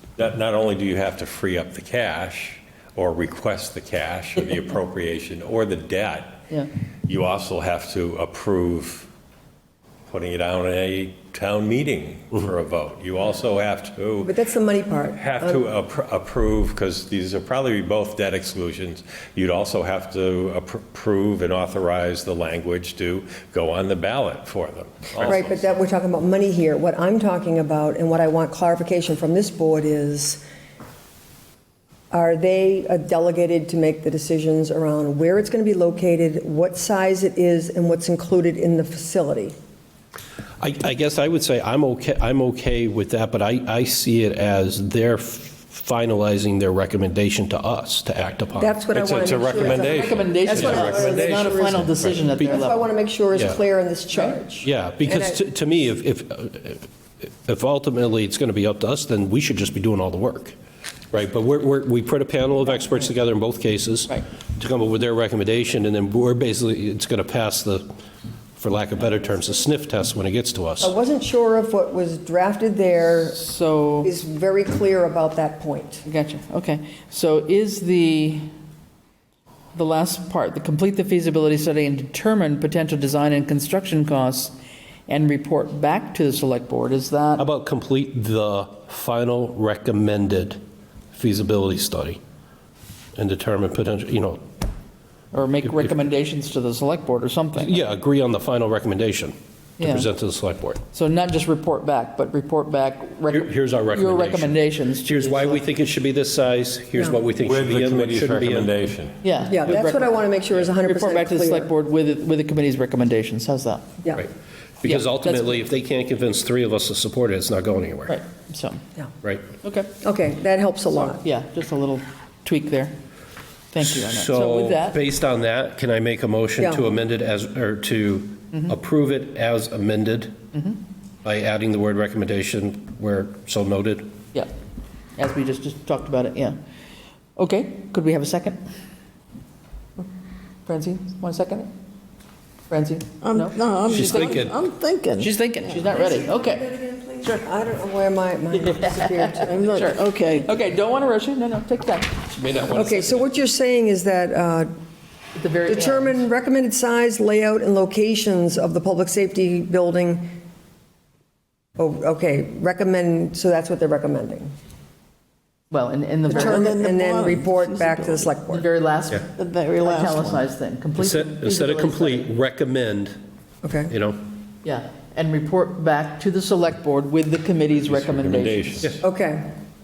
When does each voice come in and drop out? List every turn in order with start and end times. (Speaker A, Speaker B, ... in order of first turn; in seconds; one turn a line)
Speaker A: 0.2-6.4
Speaker A: 7.1-9.1
Speaker A: 10.1-14.3
Speaker B: 14.2-15.6
Speaker A: 15.1-25.8
Speaker B: 25.2-30.4
Speaker B: 32.1-39.5
Speaker C: 40.6-48.8
Speaker B: 48.5-55.4
Speaker A: 48.9-52.3
Speaker D: 49.8-52.9
Speaker C: 53.4-53.6
Speaker D: 54.1-54.4
Speaker C: 54.6-60.6
Speaker C: 61.1-67.9
Speaker C: 68.6-71.0
Speaker B: 70.8-73.4
Speaker D: 73.3-74.1
Speaker B: 74.0-76.0
Speaker D: 76.1-78.5
Speaker D: 79.7-84.5
Speaker D: 85.1-87.5
Speaker C: 87.4-90.6
Speaker C: 91.1-92.2
Speaker C: 93.2-94.4
Speaker D: 95.3-97.8
Speaker C: 97.6-100.8
Speaker D: 99.8-100.1
Speaker D: 100.9-105.7
Speaker C: 103.3-108.7
Speaker A: 107.4-109.2
Speaker D: 109.2-114.0
Speaker B: 109.5-111.7
Speaker C: 114.8-118.2
Speaker D: 114.8-115.6
Speaker D: 118.1-118.8
Speaker D: 119.6-119.9
Speaker B: 120.0-121.2
Speaker D: 121.1-122.9
Speaker D: 123.7-125.0
Speaker C: 123.8-130.4
Speaker B: 126.6-126.9
Speaker D: 130.5-130.8
Speaker C: 131.2-134.1
Speaker D: 135.2-136.6
Speaker D: 137.4-138.6
Speaker D: 140.7-141.7
Speaker D: 142.7-144.4
Speaker E: 143.2-145.8
Speaker C: 143.9-144.6
Speaker D: 145.2-146.7
Speaker B: 145.9-149.9
Speaker D: 148.5-152.2
Speaker E: 149.4-150.5
Speaker C: 152.3-153.3
Speaker B: 152.7-154.7
Speaker D: 155.3-156.2
Speaker B: 155.7-160.3
Speaker B: 161.8-164.5
Speaker D: 165.7-166.7
Speaker E: 166.3-168.4
Speaker B: 166.3-168.7
Speaker D: 168.5-172.3
Speaker E: 169.4-170.4
Speaker C: 171.0-173.2
Speaker B: 173.6-173.9
Speaker C: 173.9-174.2
Speaker D: 174.6-178.8
Speaker A: 177.9-179.0
Speaker B: 179.0-179.5